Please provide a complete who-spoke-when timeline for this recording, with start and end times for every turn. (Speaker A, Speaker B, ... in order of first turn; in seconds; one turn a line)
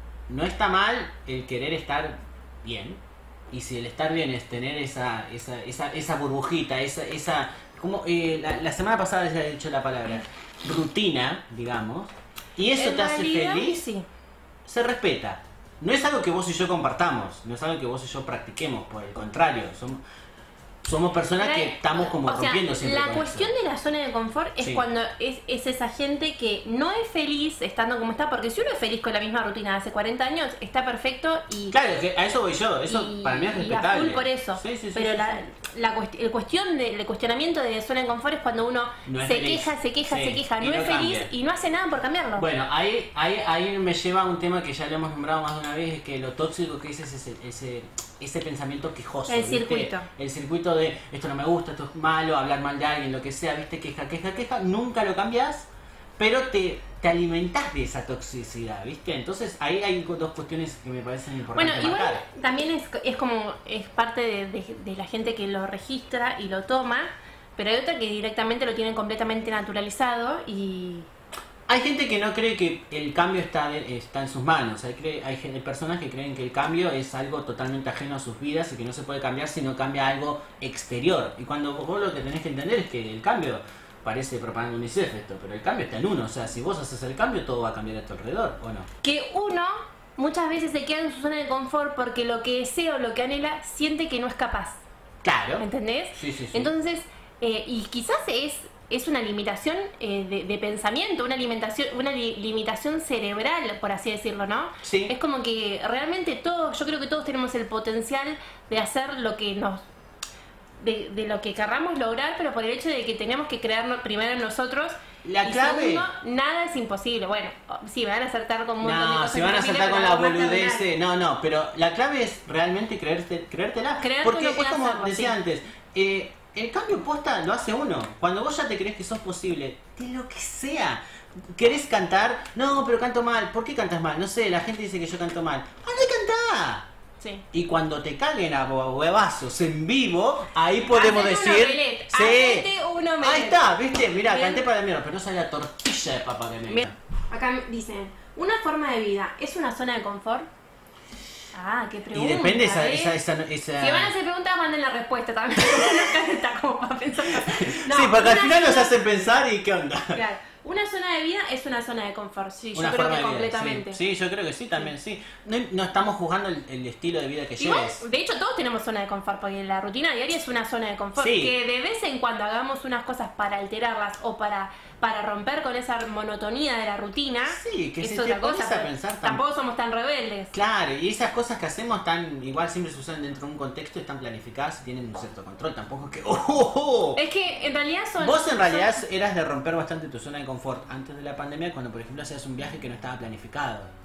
Speaker A: 0.3-3.0
Speaker A: 3.5-13.8
Speaker B: 12.7-14.1
Speaker A: 14.7-20.0
Speaker A: 20.8-23.5
Speaker B: 21.4-31.8
Speaker A: 31.7-35.4
Speaker B: 32.9-42.5
Speaker A: 39.0-41.3
Speaker A: 42.4-55.7
Speaker B: 49.3-50.1
Speaker A: 56.2-62.2
Speaker B: 61.5-71.1
Speaker A: 71.7-88.9
Speaker B: 89.0-94.8
Speaker A: 95.2-95.6
Speaker B: 95.6-109.8
Speaker A: 96.2-96.7
Speaker A: 104.8-105.1
Speaker B: 110.8-120.9
Speaker A: 115.2-116.1
Speaker A: 118.8-131.0
Speaker B: 124.0-125.4
Speaker A: 131.6-136.9
Speaker B: 137.2-137.4
Speaker A: 137.5-142.7
Speaker B: 140.8-143.6
Speaker A: 143.2-146.9
Speaker B: 144.2-144.7
Speaker B: 146.7-150.5
Speaker B: 151.5-153.2
Speaker A: 152.1-154.1
Speaker B: 153.8-159.0
Speaker A: 157.4-160.2
Speaker B: 160.1-164.0
Speaker A: 162.7-168.0
Speaker B: 167.6-180.5
Speaker A: 171.2-171.5
Speaker A: 177.5-179.4
Speaker A: 180.5-187.2
Speaker B: 187.2-189.0
Speaker A: 188.2-193.9